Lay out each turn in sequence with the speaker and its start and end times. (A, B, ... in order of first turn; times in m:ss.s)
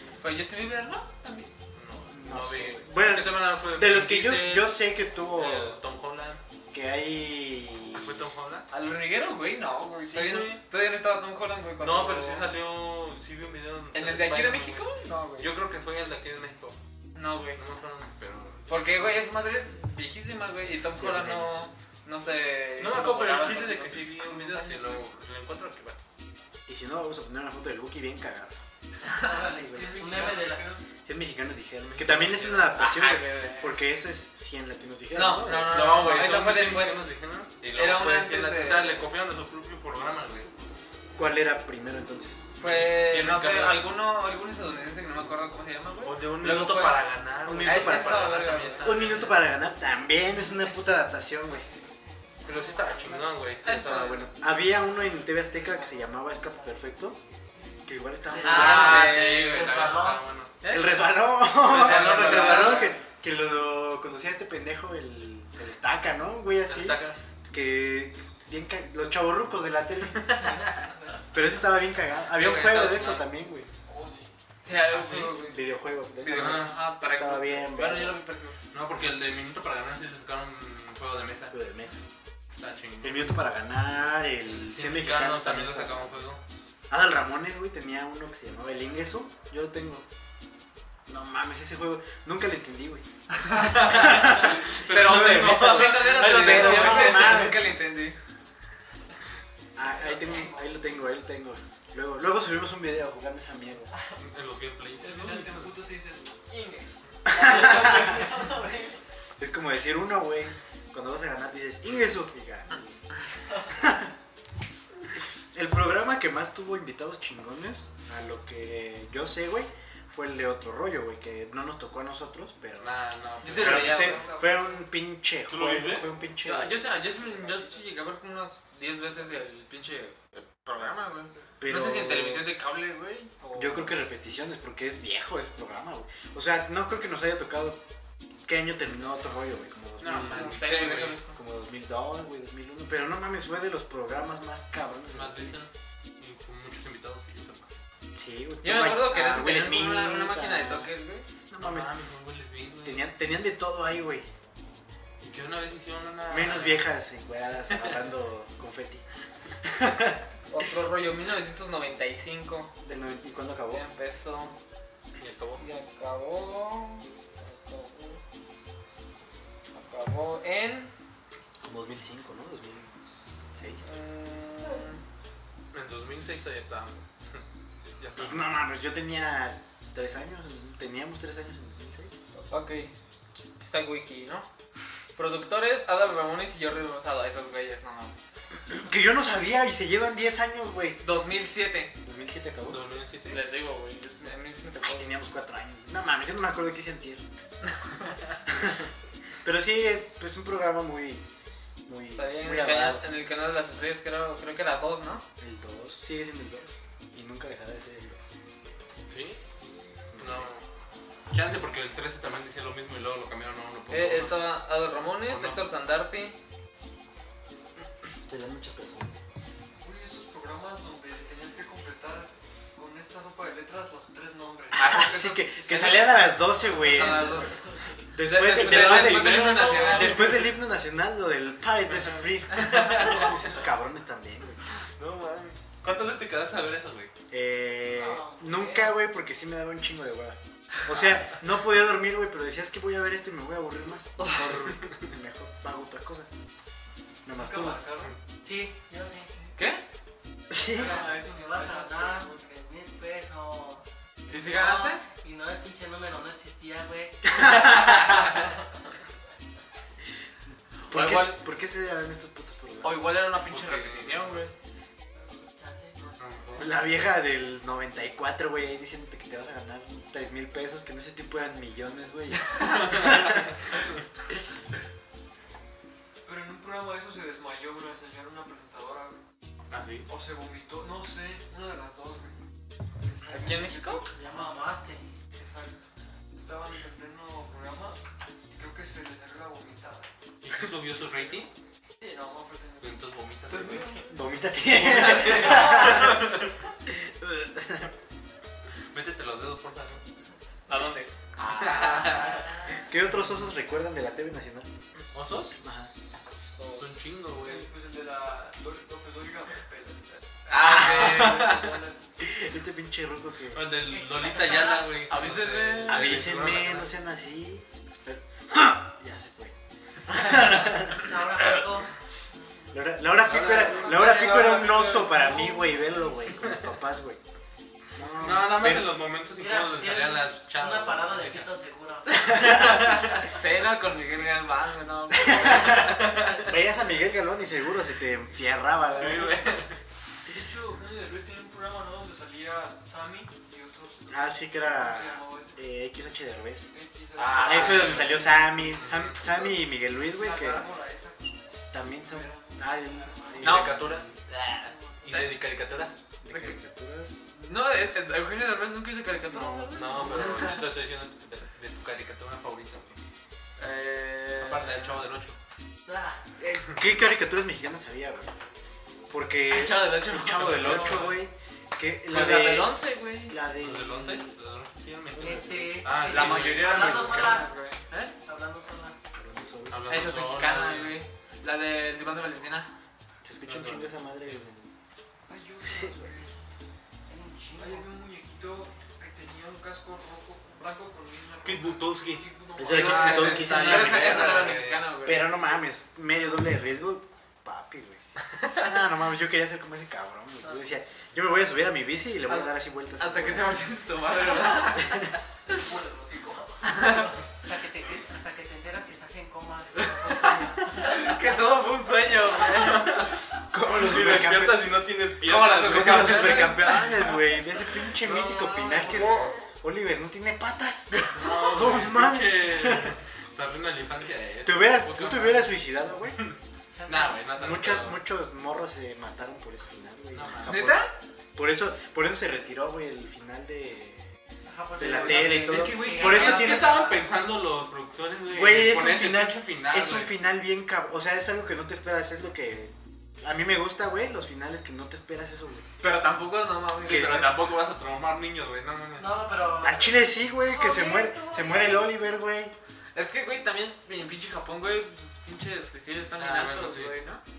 0:00.2-0:01.5 A
0:01.7-0:04.8 B
0:02.1-0:05.8 C
0:05.4-0:06.4 B
0:06.7-0:08.2 C
0:07.9-0:08.7 B
0:08.7-0:12.5 A
0:10.0-0:10.6 B
0:11.8-0:16.8 B
0:13.9-0:15.5 A
0:17.2-0:17.6 A
0:17.6-0:18.7 B
0:18.7-0:25.0 A
0:20.9-0:21.7 C
0:22.8-0:26.0 B
0:26.6-0:28.6 C
0:29.0-0:30.7 D
0:29.6-0:30.2 C
0:29.6-0:30.8 E
0:31.0-0:35.8 C
0:31.9-0:32.8 B
0:32.7-0:33.8 A
0:35.1-0:37.0 A
0:35.5-0:40.5 B
0:37.7-0:39.1 A
0:41.2-0:42.4 C
0:42.6-0:47.1 A
0:42.6-0:43.8 B
0:46.0-0:49.4 B
0:47.4-0:51.7 C
0:47.6-0:49.3 A
0:50.4-0:53.6 D
0:52.4-0:54.0 B
0:53.6-0:54.3 A
0:53.7-0:57.2 C
0:54.4-0:56.8 D
0:57.9-0:59.6 C
0:58.2-1:00.2 D
0:58.4-1:00.1 A
0:58.4-1:00.5 B
1:00.6-1:03.0 A
1:00.7-1:10.5 C
1:01.6-1:02.9 B
1:06.6-1:07.2 B
1:10.4-1:11.3 E
1:11.3-1:13.7 C
1:12.3-1:13.2 B
1:13.8-1:14.3 E
1:14.6-1:15.6 A
1:14.8-1:15.4 B
1:15.3-1:18.2 C
1:16.2-1:18.5 A
1:16.3-1:16.8 B
1:18.7-1:21.5 B
1:21.5-1:22.0 C
1:22.5-1:23.4 B
1:23.0-1:26.1 C
1:24.5-1:26.4 B
1:26.9-1:30.0 C
1:31.0-1:37.6 C
1:33.6-1:37.6 B
1:33.7-1:38.2 A
1:39.7-1:43.9 C
1:40.1-1:40.6 D
1:44.2-1:45.7 B
1:45.0-1:49.0 E
1:47.3-1:48.2 C
1:49.4-1:53.0 C
1:53.6-1:54.1 C
1:55.5-2:03.0 C
2:02.8-2:04.2 B
2:03.4-2:04.8 A
2:03.5-2:06.8 C
2:05.5-2:06.1 B
2:06.4-2:13.9 A
2:07.0-2:07.9 E
2:11.6-2:12.4 C
2:13.5-2:17.8 C
2:18.4-2:25.6 C
2:20.0-2:21.2 B
2:20.1-2:21.4 A
2:25.1-2:27.7 B
2:28.1-2:30.9 C
2:28.6-2:31.2 A
2:31.5-2:31.9 C
2:31.6-2:33.1 B
2:32.8-2:34.3 C
2:35.2-2:36.9 B
2:36.3-2:39.0 C
2:39.6-2:40.2 C
2:40.5-2:42.7 A
2:42.8-2:43.8 C
2:43.7-2:44.5 A
2:45.2-2:45.6 B
2:45.6-2:48.2 A
2:49.7-2:50.9 A
2:51.6-2:52.9 C
2:53.5-2:53.9 C
2:53.8-2:55.0 A
2:55.7-2:57.4 B
2:58.0-2:58.4 B
2:58.2-3:02.3 C
3:02.4-3:02.9 A
3:03.6-3:04.5 A
3:05.2-3:08.1 A
3:08.7-3:11.0 C
3:11.0-3:11.9 A
3:12.0-3:12.8 C
3:12.7-3:13.4 B
3:13.3-3:15.2 A
3:14.8-3:17.2 C
3:18.4-3:18.9 C
3:19.4-3:21.2 C
3:21.9-3:23.0 C
3:22.1-3:25.2 A
3:25.4-3:28.4 C
3:29.1-3:29.4 B
3:30.1-3:30.5 C
3:30.2-3:30.6 B
3:31.3-3:34.6 B
3:33.9-3:36.4 A
3:35.2-3:35.6 B
3:38.2-3:39.2 C
3:39.8-3:44.9 E
3:44.7-3:47.6 A
3:44.9-3:47.4 C
3:47.3-3:47.7 E
3:48.1-3:54.6 C
3:48.2-3:50.3 A
3:48.4-3:50.6 B
3:52.0-3:53.4 B
3:55.0-3:57.1 B
3:57.3-4:06.3 C
3:57.9-3:59.0 D
4:07.2-4:07.8 C
4:07.3-4:08.2 E
4:08.4-4:09.4 D
4:09.6-4:09.8 A
4:10.5-4:11.0 C
4:10.6-4:12.4 E
4:10.6-4:17.7 D
4:14.3-4:15.0 A
4:17.4-4:18.1 C
4:20.9-4:23.1 C
4:20.9-4:21.4 A
4:22.8-4:24.5 A
4:23.5-4:24.4 B
4:25.2-4:26.0 D
4:25.9-4:26.8 E
4:26.2-4:26.7 B
4:26.6-4:33.5 C
4:36.2-4:39.2 E
4:39.7-4:40.1 B
4:40.1-4:42.4 E
4:43.0-4:44.8 E
4:43.3-4:44.1 A
4:44.1-4:45.1 D
4:45.3-4:48.0 E
4:48.5-4:50.1 E
4:50.4-4:51.5 B
4:51.1-4:51.5 E
4:52.0-4:54.0 E
4:52.8-4:53.9 B
4:53.5-4:54.0 A
4:54.0-4:56.4 C
4:54.8-4:56.4 B
4:55.3-4:56.1 E
4:56.9-4:57.9 C
4:58.9-5:00.0 B
5:00.7-5:01.1 A
5:01.4-5:02.5 B
5:01.4-5:04.7 C
5:01.7-5:02.8 D
5:05.1-5:05.5 B
5:05.5-5:05.9 C
5:06.5-5:06.9 A
5:06.8-5:07.7 B
5:07.4-5:12.4 E
5:10.5-5:11.6 A
5:10.6-5:11.8 B
5:12.2-5:13.6 C
5:13.5-5:16.9 B
5:13.9-5:15.0 D
5:15.1-5:16.2 A
5:15.9-5:19.5 C
5:20.1-5:21.6 C
5:20.7-5:21.9 D
5:22.7-5:27.2 C
5:23.2-5:25.2 A
5:23.4-5:25.0 B
5:23.4-5:26.4 D
5:28.0-5:29.0 C
5:28.2-5:31.5 B
5:29.4-5:32.7 D
5:32.1-5:36.2 A
5:32.9-5:33.2 B
5:35.2-5:39.4 C
5:35.8-5:36.4 B
5:38.9-5:39.8 B
5:40.3-5:45.6 E
5:44.1-5:46.7 C
5:46.7-5:48.8 E
5:47.2-5:49.2 B
5:47.3-5:50.6 C
5:50.1-5:51.4 E
5:51.7-5:54.2 C
5:51.9-5:53.5 E
5:53.4-5:54.0 B
5:53.4-5:55.3 A
5:55.0-5:56.0 B
5:56.2-5:57.3 C
5:56.3-5:56.6 A
5:57.3-6:00.6 A
5:59.3-6:00.6 C
5:59.7-6:03.0 B
6:03.6-6:05.0 A
6:04.4-6:05.4 B
6:05.8-6:06.2 D
6:06.4-6:08.3 C
6:09.1-6:14.4 C
6:09.5-6:11.1 A
6:10.4-6:11.2 B
6:12.1-6:13.4 A
6:13.6-6:17.4 B
6:15.2-6:17.5 D
6:16.0-6:18.1 A
6:16.3-6:17.2 C
6:18.2-6:19.0 D
6:19.1-6:19.8 C
6:19.7-6:21.0 B
6:19.9-6:22.7 A
6:23.2-6:24.7 C
6:23.4-6:24.4 B
6:25.3-6:26.3 E
6:25.6-6:26.0 C
6:27.1-6:27.9 D
6:27.6-6:33.2 E
6:31.4-6:34.9 B
6:32.6-6:43.5 C
6:32.6-6:35.3 A
6:43.0-6:44.9 A
6:44.7-6:45.1 C
6:45.5-6:47.2 E
6:46.6-6:47.1 A
6:47.4-6:51.1 D
6:49.7-6:50.9 E
6:50.2-6:53.0 A
6:52.5-6:53.1 B
6:53.5-6:54.8 C
6:53.7-6:57.1 B
6:55.2-6:56.7 A
6:55.6-7:03.0 C
6:57.9-6:59.2 D
6:58.9-6:59.3 B
7:01.0-7:01.4 A
7:01.2-7:05.5 B
7:01.3-7:01.7 D
7:04.4-7:06.2 C
7:06.7-7:07.2 D
7:06.9-7:08.0 B
7:07.4-7:14.1 C
7:10.1-7:10.6 B
7:10.4-7:10.9 A
7:14.5-7:17.1 D
7:14.8-7:16.7 C
7:14.8-7:20.1 B
7:18.3-7:25.6 C
7:25.8-7:27.3 A
7:26.8-7:29.4 B
7:26.8-7:27.3 C
7:29.0-7:32.0 D
7:29.6-7:32.5 C
7:32.9-7:37.2 A
7:36.2-7:37.0 B